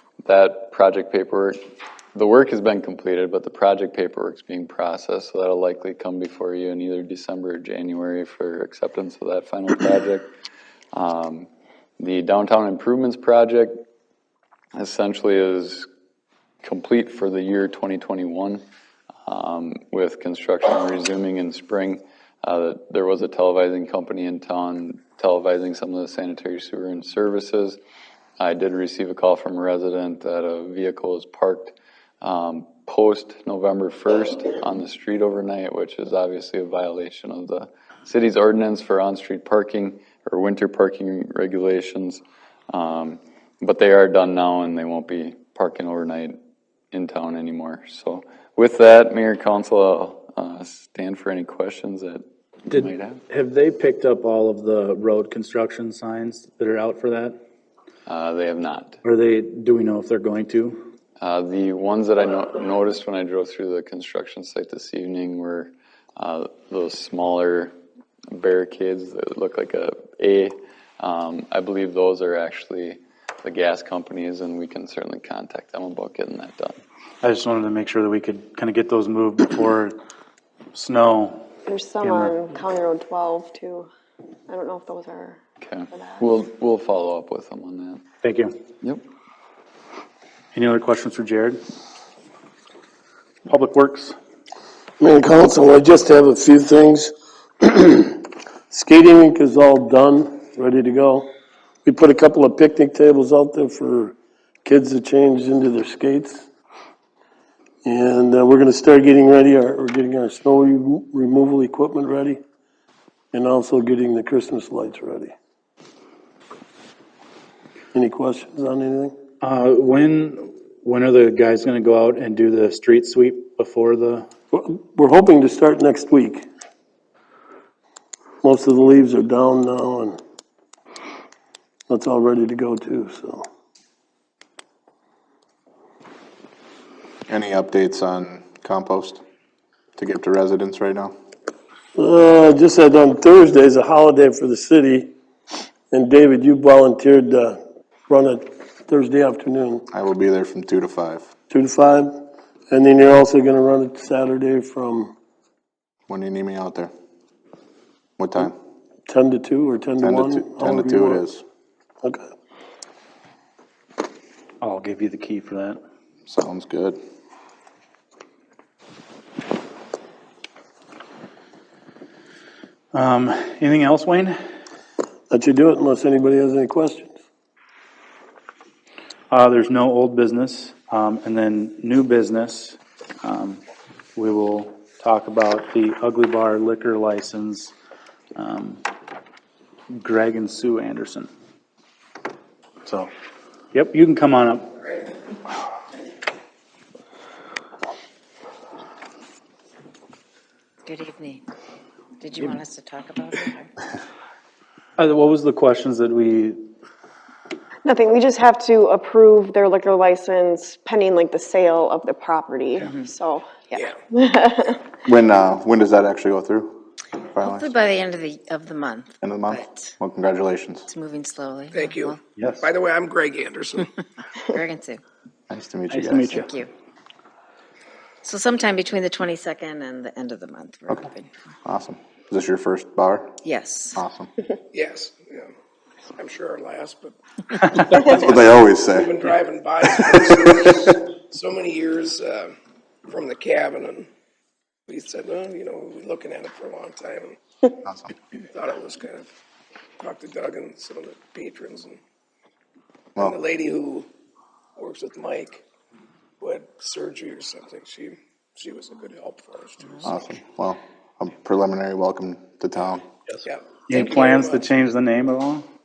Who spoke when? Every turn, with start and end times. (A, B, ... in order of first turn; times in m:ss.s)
0:00.2-0:01.6 A
0:02.1-0:10.3 A
0:10.9-0:11.5 A
0:12.0-0:13.8 A
0:14.7-0:15.9 A
0:16.6-0:18.6 A
0:19.2-0:27.8 A
0:28.4-0:46.4 A
0:46.9-0:53.2 A
0:52.7-0:57.4 B
0:58.0-0:59.0 A
0:59.0-1:00.9 B
1:01.2-1:07.7 A
1:08.3-1:16.8 A
1:17.2-1:20.0 B
1:20.7-1:21.5 B
1:21.6-1:23.9 C
1:22.0-1:22.4 B
1:24.5-1:25.4 C
1:25.6-1:28.0 A
1:25.9-1:26.2 C
1:28.2-1:28.5 B
1:30.5-1:31.6 B
1:33.4-1:34.2 B
1:35.0-1:41.3 D
1:41.8-1:46.4 D
1:47.8-1:52.4 D
1:53.3-1:55.3 D
1:57.9-1:59.1 D
1:59.4-2:04.3 B
2:04.5-2:06.4 D
2:08.4-2:10.2 D
2:11.9-2:13.4 D
2:17.3-2:19.2 E
2:20.0-2:21.1 E
2:21.9-2:25.1 D
2:25.9-2:29.8 D
2:29.9-2:31.3 E
2:31.5-2:35.1 D
2:36.1-2:36.9 E
2:38.2-2:38.5 E
2:39.1-2:41.2 D
2:40.0-2:41.4 E
2:44.6-2:45.8 B
2:46.3-2:47.0 E
2:52.9-2:54.4 B
2:55.3-2:57.1 D
2:59.3-3:03.6 B
3:04.2-3:07.7 B
3:08.3-3:08.8 B
3:09.9-3:11.3 B
3:12.8-3:13.1 B
3:13.7-3:14.8 B
3:20.8-3:21.4 F
3:22.2-3:23.7 F
3:25.0-3:26.6 B
3:27.8-3:34.8 C
3:35.0-3:37.7 E
3:37.4-3:39.9 F
3:39.2-3:40.8 E
3:40.9-3:42.2 F
3:41.7-3:43.9 G
3:42.4-3:42.6 B
3:44.5-3:45.0 F
3:45.5-3:46.4 E
3:45.9-3:46.5 B
3:48.2-3:51.3 F
3:51.6-3:53.4 E
3:53.4-3:54.0 F
3:54.0-3:54.3 E
3:54.7-3:55.5 G
3:56.1-4:02.6 G
3:57.9-3:59.2 E
4:03.1-4:04.1 G
4:04.9-4:07.4 G
4:07.8-4:08.1 E
4:08.5-4:09.3 G
4:10.0-4:12.0 G
4:13.2-4:14.1 G
4:14.8-4:15.6 G
4:16.4-4:20.1 G
4:20.0-4:23.0 E
4:23.3-4:25.7 B
4:23.4-4:24.7 G